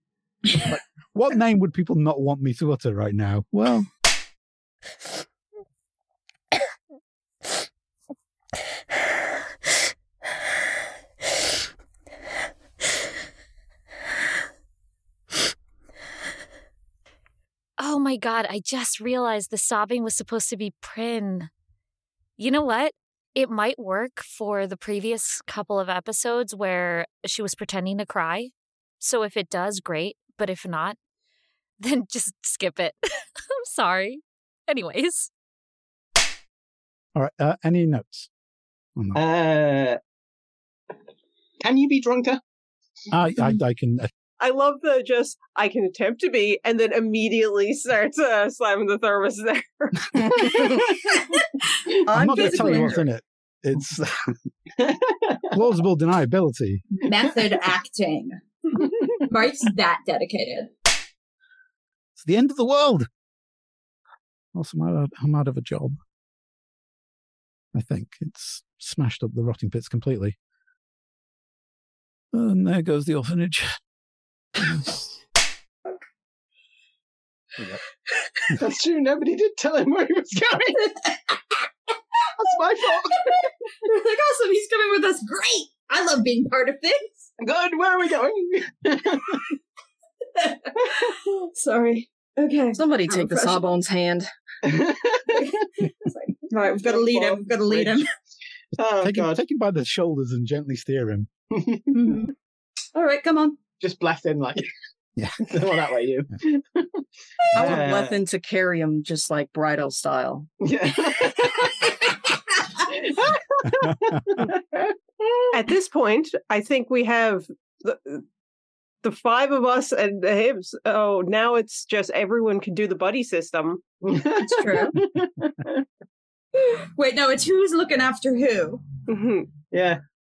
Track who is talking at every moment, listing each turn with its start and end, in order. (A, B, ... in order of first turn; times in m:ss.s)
0:00.6-0:03.9 A
0:17.8-0:21.5 B
0:22.4-0:31.0 B
0:31.8-0:35.3 B
0:37.1-0:38.3 A
0:39.0-0:39.2 A
0:39.1-0:40.0 C
0:41.6-0:42.4 C
0:43.1-0:44.1 A
0:44.4-0:50.6 D
0:51.1-0:51.4 E
0:52.1-0:53.0 E
0:52.1-0:53.1 F
0:52.1-0:54.4 A
0:54.8-0:55.6 C
0:55.5-0:56.8 A
0:56.9-1:00.7 E
1:02.2-1:03.1 A
1:04.5-1:06.0 A
1:07.7-1:10.4 A
1:12.3-1:13.7 A
1:14.6-1:15.0 A
1:18.5-1:20.9 C
1:22.4-1:23.5 C
1:23.8-1:27.3 E
1:27.4-1:29.5 C
1:30.4-1:33.6 E
1:32.7-1:34.3 F
1:34.6-1:35.6 C
1:35.4-1:38.1 E
1:36.7-1:38.0 C
1:38.8-1:39.4 C
1:39.0-1:41.3 A
1:41.5-1:42.1 C
1:41.9-1:42.3 E
1:42.9-1:43.6 E
1:43.8-1:44.7 C
1:45.4-1:47.0 C
1:47.5-1:48.2 C
1:47.6-1:50.5 F
1:50.6-1:51.9 C
1:52.8-1:55.4 C
1:53.9-1:54.2 A
1:55.5-1:58.2 D
1:59.0-2:03.8 D
2:04.0-2:05.8 C
2:04.4-2:05.0 E
2:06.6-2:08.8 E
2:09.1-2:09.6 D
2:09.7-2:10.0 C